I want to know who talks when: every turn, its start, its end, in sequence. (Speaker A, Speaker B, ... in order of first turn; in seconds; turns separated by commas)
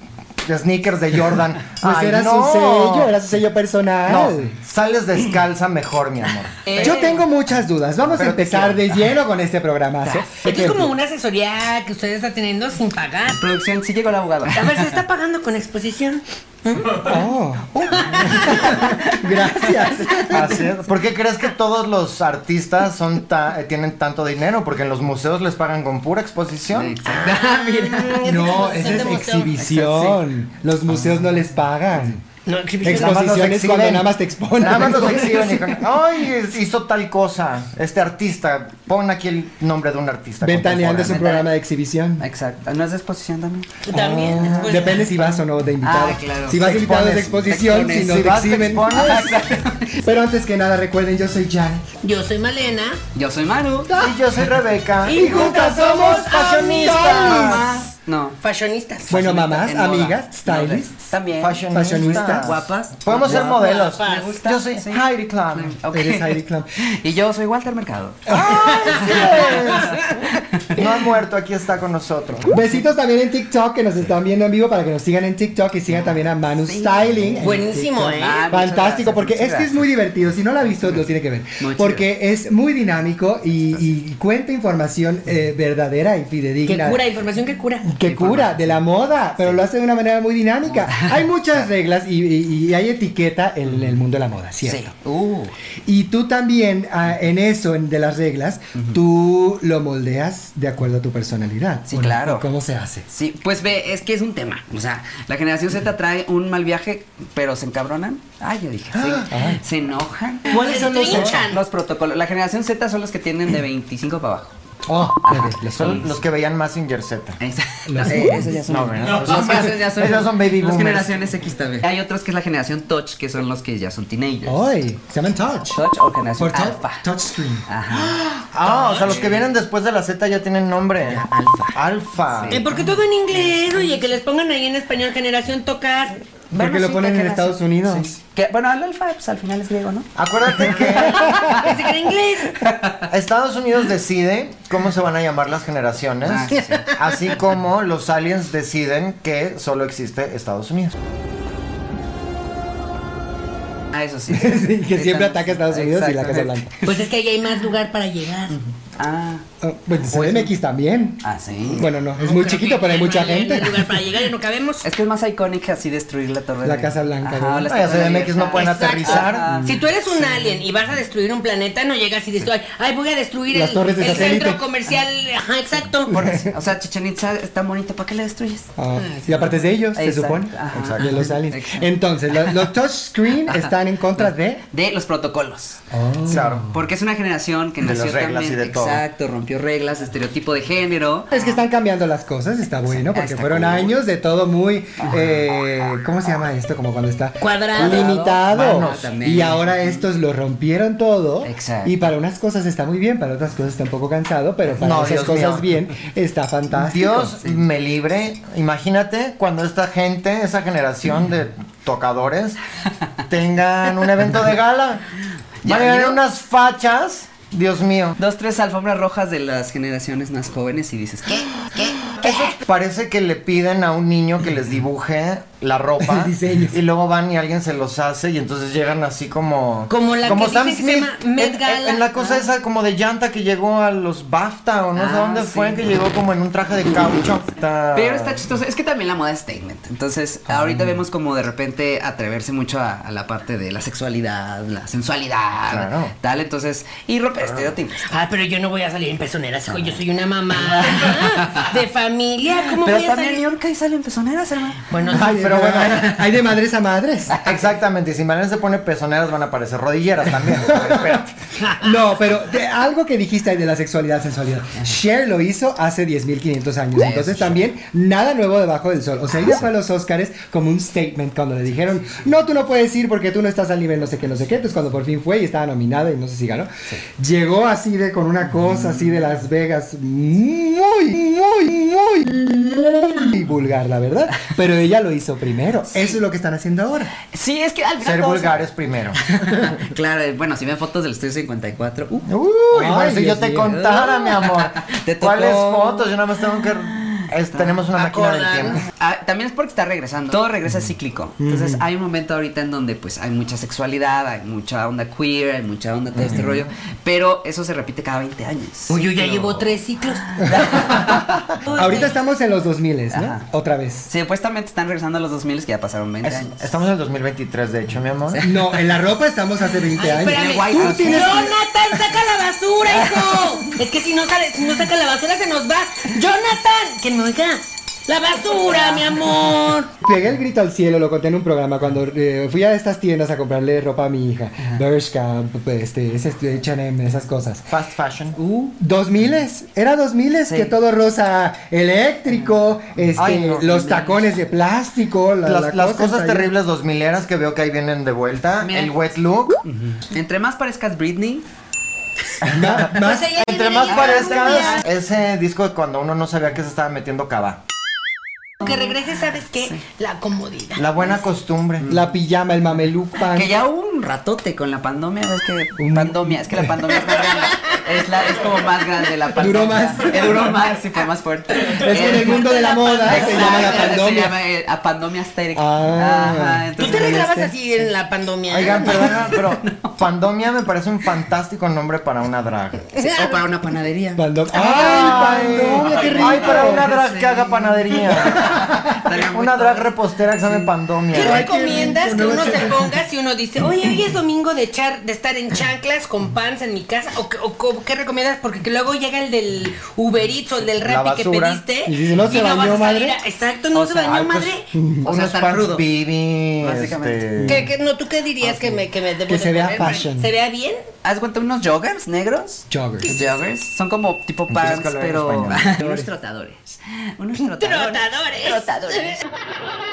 Speaker A: 0.4-3.1, Speaker B: 1.8-4.5, Speaker A: 4.0-6.9, Speaker C: 6.7-7.3, Speaker B: 6.7-10.9, Speaker A: 8.1-9.0, Speaker D: 10.4-13.4, Speaker C: 13.4-15.0, Speaker D: 14.5-17.1, Speaker B: 17.0-20.7, Speaker D: 18.0-18.8, Speaker A: 20.3-27.0, Speaker C: 26.7-28.2, Speaker D: 27.0-29.5, Speaker B: 28.2-32.2, Speaker C: 29.6-30.2, Speaker C: 30.9-31.2, Speaker D: 32.5-33.2, Speaker B: 32.8-35.8, Speaker A: 32.9-41.3, Speaker B: 40.4-42.2, Speaker C: 41.0-41.5, Speaker C: 42.2-43.8, Speaker D: 43.9-45.1, Speaker B: 43.9-49.4, Speaker C: 45.8-46.6, Speaker A: 46.6-49.4, Speaker C: 47.4-48.2, Speaker C: 48.9-49.9, Speaker B: 49.9-51.8, Speaker D: 52.0-53.0, Speaker C: 53.1-54.0, Speaker B: 53.9-54.2, Speaker A: 54.0-57.6, Speaker D: 55.0-57.4, Speaker B: 55.1-57.8, Speaker C: 57.2-58.4, Speaker D: 58.4-59.1, Speaker C: 59.1-68.3, Speaker B: 59.1-61.0, Speaker A: 61.3-65.8, Speaker B: 61.7-62.6, Speaker D: 63.3-64.4, Speaker B: 65.9-66.8, Speaker B: 68.3-69.2, Speaker A: 68.3-70.0, Speaker C: 69.0-70.9, Speaker A: 70.7-72.5, Speaker B: 72.5-87.0, Speaker C: 76.6-77.6, Speaker D: 77.4-78.5, Speaker C: 78.1-79.8, Speaker C: 81.6-82.1, Speaker D: 86.7-87.9, Speaker B: 87.9-94.9, Speaker C: 88.0-88.8, Speaker C: 89.4-89.6, Speaker C: 90.7-91.6, Speaker C: 93.7-94.0, Speaker C: 94.7-95.5, Speaker B: 95.9-103.0, Speaker C: 98.8-99.0, Speaker C: 101.9-102.5, Speaker C: 103.1-114.6, Speaker A: 109.0-109.3, Speaker B: 109.3-109.6, Speaker B: 110.5-111.5, Speaker D: 110.5-111.6, Speaker B: 114.9-116.1, Speaker C: 115.2-115.5, Speaker A: 115.7-117.4, Speaker C: 117.4-124.7, Speaker B: 117.9-118.7, Speaker A: 118.1-121.2, Speaker B: 124.5-125.8, Speaker C: 125.7-127.1, Speaker B: 126.4-128.0, Speaker C: 127.7-129.5, Speaker A: 128.4-131.2, Speaker C: 131.0-132.6, Speaker A: 131.8-132.6, Speaker D: 132.5-136.2, Speaker C: 136.5-141.8, Speaker B: 136.5-138.2, Speaker A: 140.2-141.5, Speaker B: 141.0-141.6, Speaker D: 141.5-142.5, Speaker C: 142.5-143.1, Speaker A: 143.1-151.0, Speaker C: 146.2-146.9, Speaker C: 153.9-157.0, Speaker B: 154.3-156.7, Speaker D: 156.8-158.6, Speaker C: 158.5-159.4, Speaker B: 159.6-164.0, Speaker C: 160.0-160.5, Speaker C: 161.2-161.9, Speaker D: 162.2-164.8, Speaker C: 164.8-169.8, Speaker B: 166.6-167.7, Speaker A: 167.7-169.4, Speaker D: 168.6-176.2, Speaker B: 169.4-169.8, Speaker B: 173.5-174.6, Speaker B: 176.1-176.5, Speaker C: 176.1-178.7, Speaker B: 178.8-184.6, Speaker D: 179.0-179.3, Speaker C: 179.9-182.7, Speaker A: 180.7-181.3, Speaker C: 183.4-185.8, Speaker B: 185.9-186.8, Speaker A: 186.3-186.7, Speaker C: 186.3-191.6, Speaker A: 187.8-189.0, Speaker B: 191.3-207.3, Speaker C: 192.9-194.0, Speaker D: 197.4-198.3, Speaker C: 197.8-200.1, Speaker A: 197.9-199.1, Speaker C: 201.4-202.1, Speaker A: 204.8-205.7, Speaker A: 206.7-212.6, Speaker A: 213.3-215.0, Speaker C: 215.6-216.2, Speaker A: 215.6-218.2, Speaker C: 218.2-222.5, Speaker A: 222.2-238.5, Speaker B: 226.0-226.8, Speaker D: 229.9-232.4, Speaker C: 234.9-235.8, Speaker C: 237.9-248.1, Speaker A: 245.7-246.1, Speaker D: 248.1-253.4, Speaker C: 251.0-251.7, Speaker C: 252.7-254.9, Speaker D: 254.9-255.4, Speaker B: 255.1-257.4, Speaker A: 255.2-256.3, Speaker A: 257.4-261.3, Speaker B: 260.6-261.2, Speaker B: 261.8-287.1, Speaker C: 267.0-267.6, Speaker C: 285.9-286.2, Speaker C: 287.3-288.7, Speaker A: 288.0-289.2, Speaker C: 289.3-292.3, Speaker A: 292.3-298.9, Speaker B: 292.7-293.8, Speaker C: 293.6-297.9, Speaker D: 298.0-298.8, Speaker C: 298.8-309.5, Speaker B: 301.4-301.8, Speaker A: 306.2-306.5, Speaker D: 308.9-310.4, Speaker C: 310.3-311.4, Speaker B: 310.4-314.1, Speaker D: 311.6-312.1, Speaker C: 313.1-313.4, Speaker C: 314.1-316.6, Speaker A: 316.2-318.4, Speaker C: 318.3-318.9, Speaker B: 318.4-321.5, Speaker D: 320.0-329.9, Speaker C: 320.3-321.5, Speaker C: 328.7-329.3, Speaker B: 330.0-337.7, Speaker A: 337.7-338.4, Speaker C: 338.4-338.8, Speaker B: 338.8-346.5, Speaker C: 340.5-340.7, Speaker C: 342.3-342.6, Speaker C: 343.1-344.3, Speaker A: 343.2-343.7, Speaker A: 345.4-349.6, Speaker C: 348.6-348.9, Speaker C: 349.6-351.4, Speaker A: 352.5-357.6, Speaker B: 352.5-353.4, Speaker D: 352.9-354.8, Speaker C: 353.9-354.8, Speaker D: 358.6-360.9, Speaker A: 360.8-361.9, Speaker B: 361.9-363.5, Speaker C: 363.2-377.3, Speaker B: 365.8-366.9, Speaker B: 369.4-370.4, Speaker B: 371.7-374.4, Speaker D: 372.3-373.9, Speaker B: 375.5-377.5, Speaker D: 376.8-379.2, Speaker A: 378.5-382.9, Speaker C: 378.9-380.0, Speaker D: 383.0-383.3, Speaker C: 383.0-384.2, Speaker B: 384.2-386.9, Speaker D: 384.6-385.2, Speaker A: 384.6-391.5, Speaker C: 386.0-390.7, Speaker B: 388.3-389.0, Speaker D: 391.1-404.7, Speaker B: 391.1-392.9, Speaker A: 400.8-401.6, Speaker B: 401.9-403.2, Speaker C: 403.7-404.4, Speaker B: 404.7-405.1, Speaker C: 405.0-405.9, Speaker A: 405.0-407.7, Speaker C: 406.6-407.3, Speaker B: 407.4-407.7, Speaker D: 407.5-410.8, Speaker B: 409.3-410.3, Speaker C: 411.0-419.2, Speaker B: 412.7-413.2, Speaker A: 414.5-415.7, Speaker B: 415.8-416.1, Speaker D: 417.4-419.2